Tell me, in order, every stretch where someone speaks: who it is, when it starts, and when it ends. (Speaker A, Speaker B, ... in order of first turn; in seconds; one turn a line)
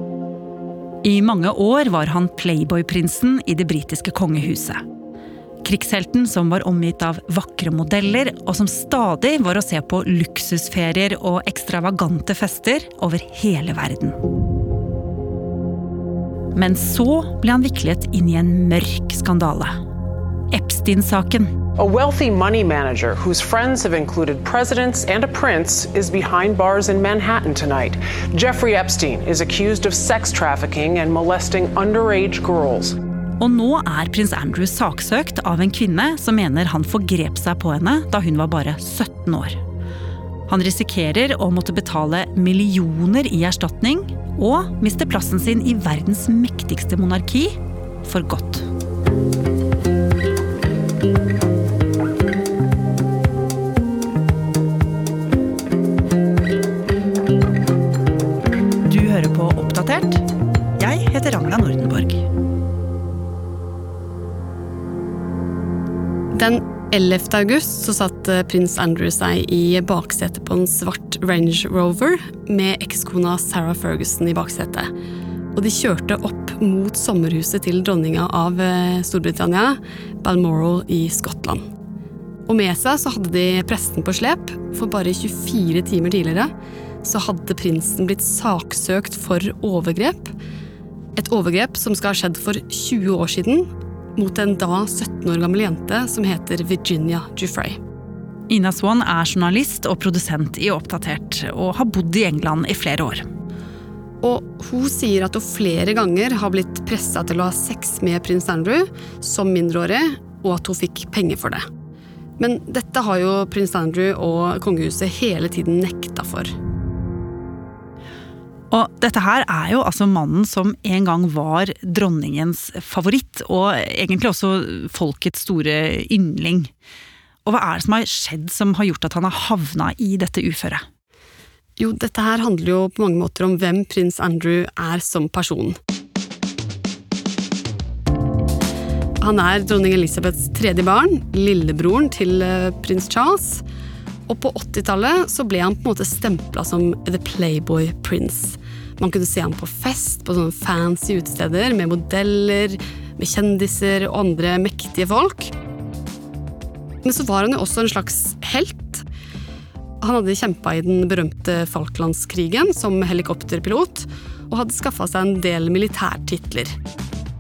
Speaker A: 1.0-4.8
Speaker A: 5.6-14.2
Speaker A: 16.6-19.7
Speaker A: 20.5-21.5
Speaker B: 21.8-33.0
Speaker A: 33.4-39.6
Speaker A: 40.5-48.7
Speaker A: 58.9-60.2
Speaker A: 60.8-62.2
Speaker C: 66.3-74.9
Speaker C: 75.5-81.6
Speaker C: 82.5-86.5
Speaker C: 87.0-90.3
Speaker C: 91.2-97.8
Speaker A: 98.5-103.3
Speaker C: 104.2-111.7
Speaker C: 112.4-116.5
Speaker A: 118.7-126.7
Speaker A: 127.5-130.8
Speaker C: 131.8-135.8
Speaker C: 139.2-143.6
Speaker C: 144.3-155.5
Speaker C: 157.0-159.1
Speaker C: 160.0-166.8